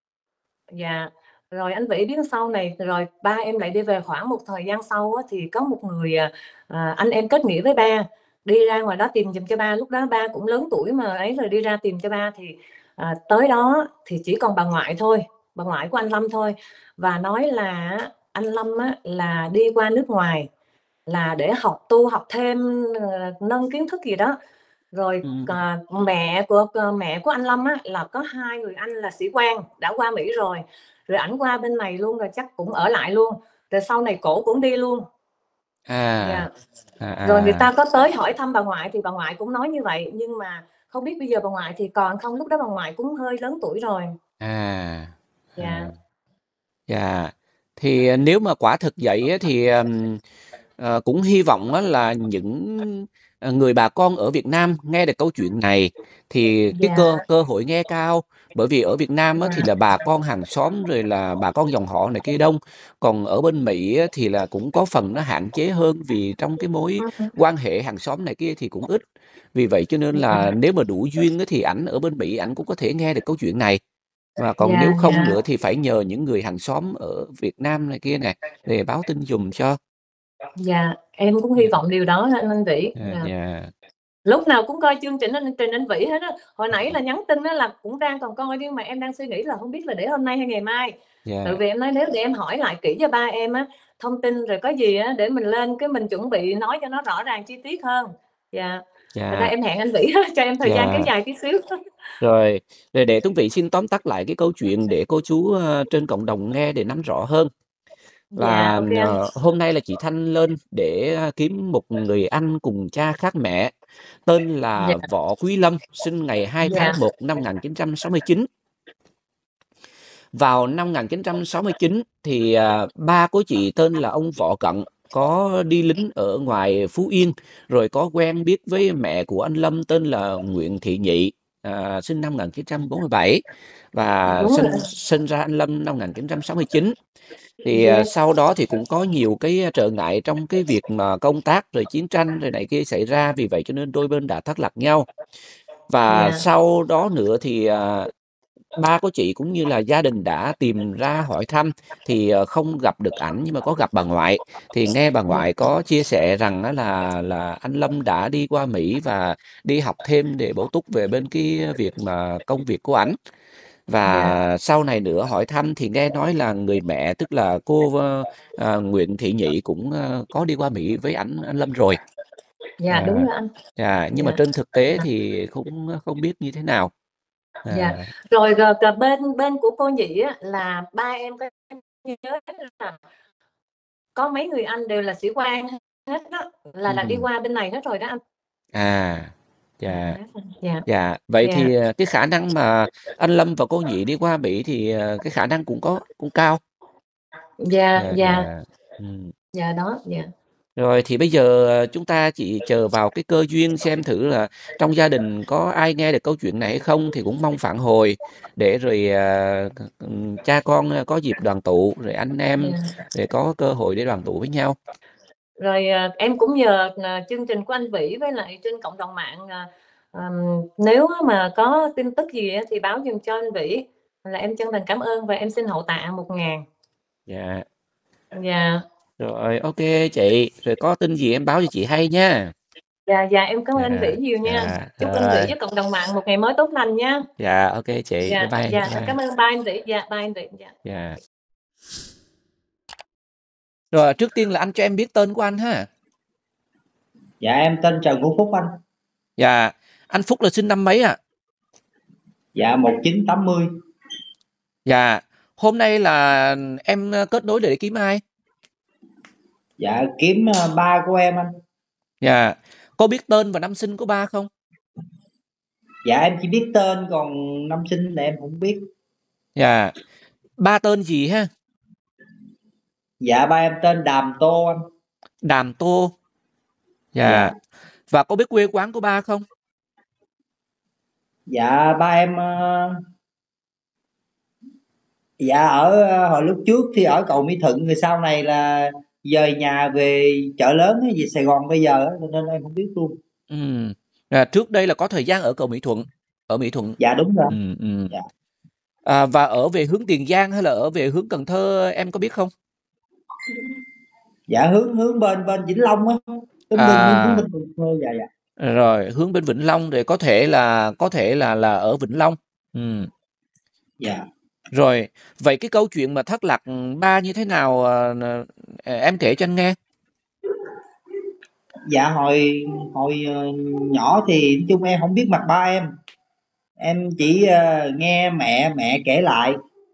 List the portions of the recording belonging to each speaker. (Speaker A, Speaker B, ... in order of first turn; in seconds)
Speaker A: 0.7-20.5, 21.1-24.4, 24.9-35.1, 36.2-36.5, 37.2-44.2, 45.6-45.9, 56.7-57.2, 67.0-67.3, 70.1-70.5, 74.6-75.4, 80.6-83.3, 84.3-101.8, 108.3-109.2, 114.8-115.0, 116.6-117.0, 134.3-134.9, 137.7-138.1, 146.1-146.4, 164.0-164.3, 172.8-173.5, 177.7-183.0, 184.2-188.2, 189.9-190.9, 191.4-191.7, 197.6-198.5, 199.5-200.3, 212.6-212.9, 215.6-226.7, 228.3-228.8, 233.1-237.3, 238.2-240.7
Speaker B: 25.2-25.5, 35.9-36.5, 37.0-37.7, 44.4-45.9, 46.9-50.2, 50.8-69.0, 69.5-73.8, 74.4-79.8, 83.0-83.7, 91.2-91.6, 99.1-99.5, 100.6-101.1, 102.2-107.5, 108.4-113.7, 114.3-118.5, 120.3-137.0, 137.6-145.1, 145.9-148.1, 148.8-163.2, 163.9-172.0, 172.9-176.9, 177.7-178.1, 186.9-187.2, 188.7-190.2, 190.9-196.6, 198.0-199.3, 200.8-214.8, 227.3-227.7, 229.2-232.5, 233.8-235.5, 237.4-239.2, 240.8-241.2, 243.9-245.9, 249.4-251.2, 254.9-258.2, 262.2-264.5, 269.6-269.9, 270.6-271.5, 275.4-276.1, 277.1-277.6, 278.1-279.4, 293.5-297.0, 297.5-298.1, 299.1-302.5, 306.8-307.5, 308.6-313.1, 314.7-319.8
Speaker C: 247.4-248.8, 252.6-253.7, 259.8-261.6, 266.1-268.9, 273.2-274.9, 277.2-277.5, 281.5-283.0, 285.4-293.2, 297.0-297.6, 304.5-308.3, 321.9-325.9, 326.8-329.6